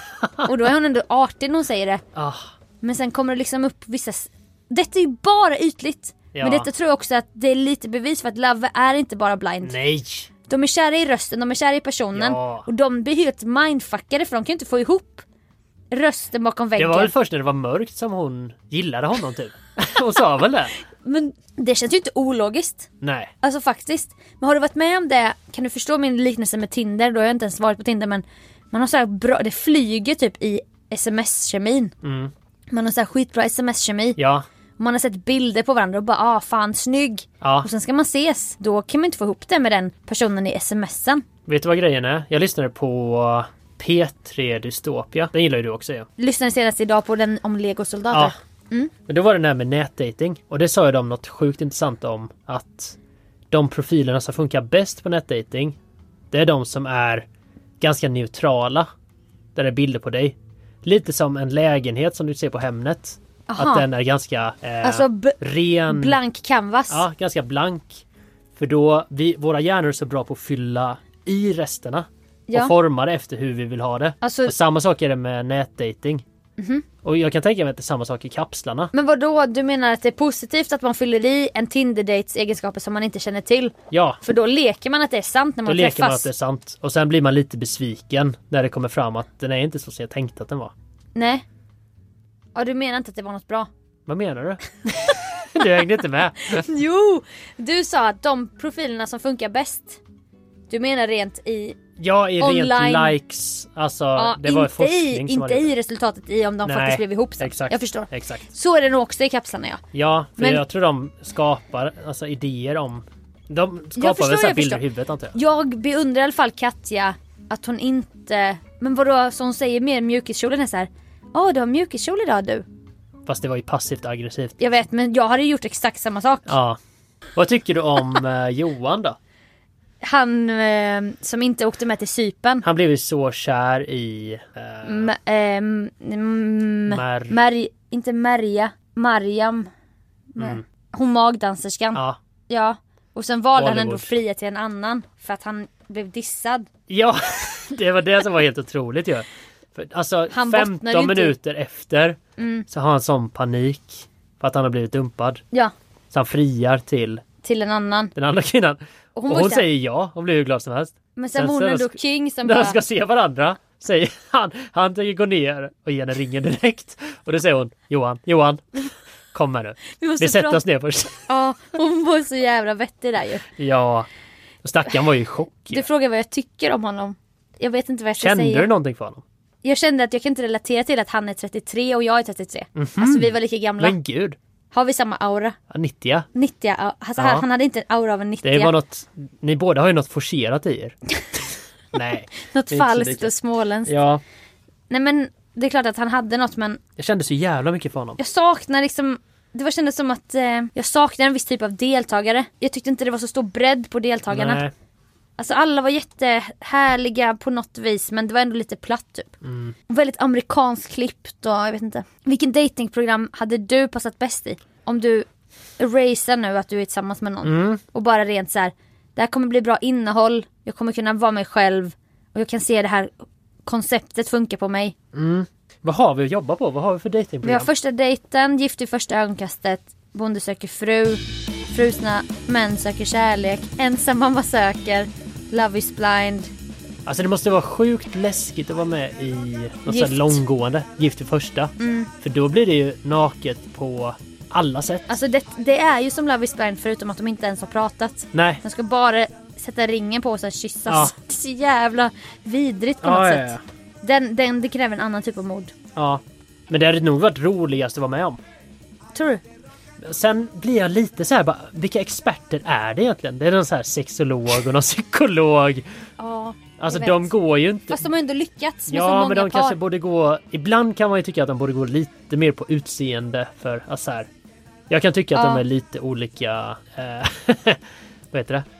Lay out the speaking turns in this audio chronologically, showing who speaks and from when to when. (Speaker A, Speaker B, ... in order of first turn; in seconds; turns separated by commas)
Speaker A: 0.4-2.0, Speaker B: 2.1-2.5, Speaker A: 2.8-9.8, Speaker B: 6.3-6.7, Speaker B: 9.6-10.3, Speaker A: 10.5-15.2, Speaker B: 12.1-12.7, Speaker A: 15.9-17.1, Speaker B: 16.8-20.8, Speaker A: 21.0-22.9, Speaker B: 23.0-23.3, Speaker A: 23.4-31.9, Speaker B: 32.0-32.3, Speaker A: 32.7-34.2, Speaker B: 34.2-34.4, Speaker A: 34.8-41.2, Speaker B: 37.4-37.7, Speaker B: 41.5-46.1, Speaker A: 46.2-48.9, Speaker B: 49.1-53.0, Speaker B: 53.5-55.8, Speaker B: 56.3-57.2, Speaker B: 57.8-58.9, Speaker B: 59.5-66.2, Speaker A: 63.5-63.9, Speaker A: 64.8-65.4, Speaker A: 65.9-67.0, Speaker B: 66.9-68.0, Speaker B: 68.5-76.2, Speaker A: 74.2-74.5, Speaker A: 76.6-76.8, Speaker B: 77.0-78.9, Speaker A: 78.9-86.3, Speaker B: 83.9-84.2, Speaker B: 85.7-90.7, Speaker A: 91.1-91.4, Speaker A: 92.5-93.7, Speaker B: 94.1-96.6, Speaker A: 96.5-100.0, Speaker A: 100.7-101.8, Speaker B: 102.0-105.7, Speaker A: 102.4-103.2, Speaker A: 104.2-109.8, Speaker B: 106.6-108.5, Speaker B: 109.9-115.3, Speaker A: 110.4-110.6, Speaker A: 114.0-114.8, Speaker A: 115.3-122.6, Speaker B: 123.2-124.6, Speaker A: 124.6-126.5, Speaker B: 126.5-126.8, Speaker B: 127.4-129.2, Speaker A: 130.0-132.6, Speaker B: 132.6-135.1, Speaker A: 134.9-139.7, Speaker B: 136.9-137.4, Speaker A: 140.4-146.7, Speaker B: 140.4-140.6, Speaker B: 143.6-144.2, Speaker B: 146.9-152.2, Speaker A: 150.3-151.3, Speaker A: 152.4-152.7, Speaker B: 152.7-155.4, Speaker B: 156.1-157.2, Speaker A: 157.4-158.1, Speaker B: 158.1-168.8, Speaker A: 159.2-159.7, Speaker A: 161.2-162.8, Speaker B: 169.3-171.2, Speaker A: 169.9-170.6, Speaker A: 171.3-173.4, Speaker B: 173.6-174.1, Speaker B: 174.6-175.8, Speaker A: 175.7-178.7, Speaker B: 178.2-179.2, Speaker A: 179.6-183.9, Speaker B: 182.8-184.4, Speaker A: 184.7-185.6, Speaker B: 185.7-186.2, Speaker A: 186.3-188.7, Speaker B: 187.2-187.4, Speaker B: 188.4-190.9, Speaker B: 191.9-193.3, Speaker A: 192.5-193.9, Speaker B: 193.9-194.2, Speaker A: 194.9-196.8, Speaker B: 197.0-198.2, Speaker A: 198.2-204.6, Speaker B: 204.3-204.7, Speaker A: 205.4-209.3, Speaker B: 209.4-209.7, Speaker A: 209.9-215.2, Speaker A: 215.8-223.1, Speaker B: 217.4-217.8, Speaker A: 223.7-224.9, Speaker B: 225.1-227.7, Speaker A: 227.4-236.5, Speaker B: 237.1-245.1, Speaker A: 239.9-240.4, Speaker A: 241.8-242.1, Speaker A: 245.1-253.5, Speaker B: 248.3-248.6, Speaker B: 250.9-251.1, Speaker B: 253.0-253.6, Speaker A: 254.0-255.7, Speaker B: 255.9-258.4, Speaker A: 259.1-259.4, Speaker B: 260.0-265.9, Speaker A: 266.2-267.3, Speaker B: 266.8-268.1, Speaker A: 267.9-269.8, Speaker B: 268.9-274.3, Speaker B: 274.9-277.8, Speaker A: 275.4-275.6, Speaker B: 278.3-278.6